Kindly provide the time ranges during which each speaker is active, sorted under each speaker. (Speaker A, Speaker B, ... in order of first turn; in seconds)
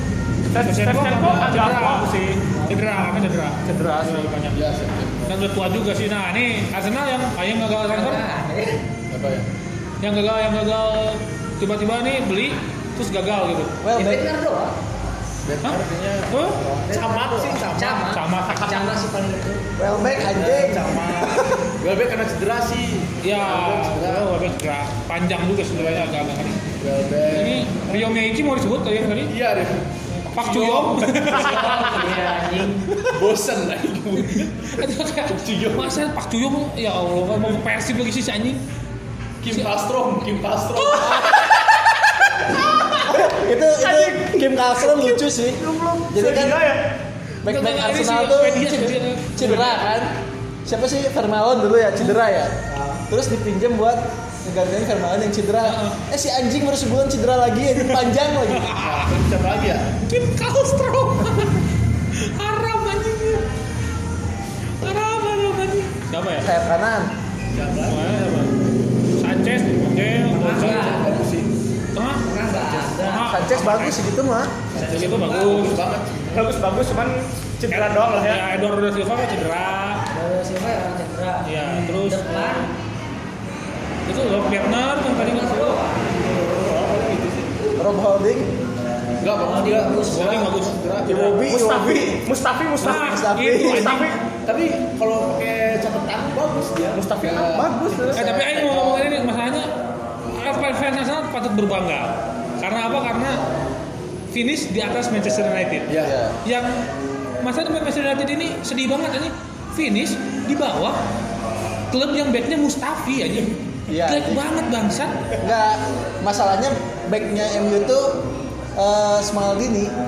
Speaker A: 0.5-2.4, 3.6-4.3, 43.0-47.0, 76.3-78.4, 91.4-94.2, 96.9-98.3
Speaker B: 0.6-2.1, 2.7-4.6, 5.3-8.2, 10.0-13.8, 15.6-16.6, 18.0-18.8, 23.2-26.7, 27.3-29.3, 30.3-31.8, 34.2-38.6, 40.8-41.8, 47.4-49.8, 55.6-56.0, 57.9-59.1, 60.0-63.5, 64.8-66.5, 67.8-68.5, 69.2-71.0, 71.9-72.2, 72.9-74.0, 74.8-75.8, 77.7-80.0, 81.4-82.7, 84.1-85.8, 90.1-90.8, 92.8-94.2, 98.1-99.7, 100.3-103.4, 104.3-106.9, 107.4-111.0, 111.9-115.2
Speaker C: 4.5-5.4, 9.1-9.4, 15.4-18.1, 20.1-24.3, 26.8-28.1, 29.3-32.3, 33.0-34.5, 35.3-35.9, 39.4-41.4, 52.7-53.0, 58.8-60.0, 67.5-68.1, 70.5-71.5, 74.7-76.5, 86.2-87.7, 89.2-91.4, 94.4-99.0, 105.9-106.2
Speaker D: 7.9-8.8, 13.9-14.7, 16.8-19.7, 31.4-32.9, 70.3-71.2, 72.2-73.3, 74.8-75.6, 80.1-82.7, 85.1-86.2, 89.3-90.4
Speaker E: 13.8-14.2, 19.8-21.6, 41.8-42.5, 43.0-46.6, 47.4-58.7, 66.4-67.1, 73.2-74.6, 87.8-88.5, 91.0-92.3, 92.8-94.0, 106.0-106.3, 113.9-114.4, 115.4-118.2, 118.8-119.9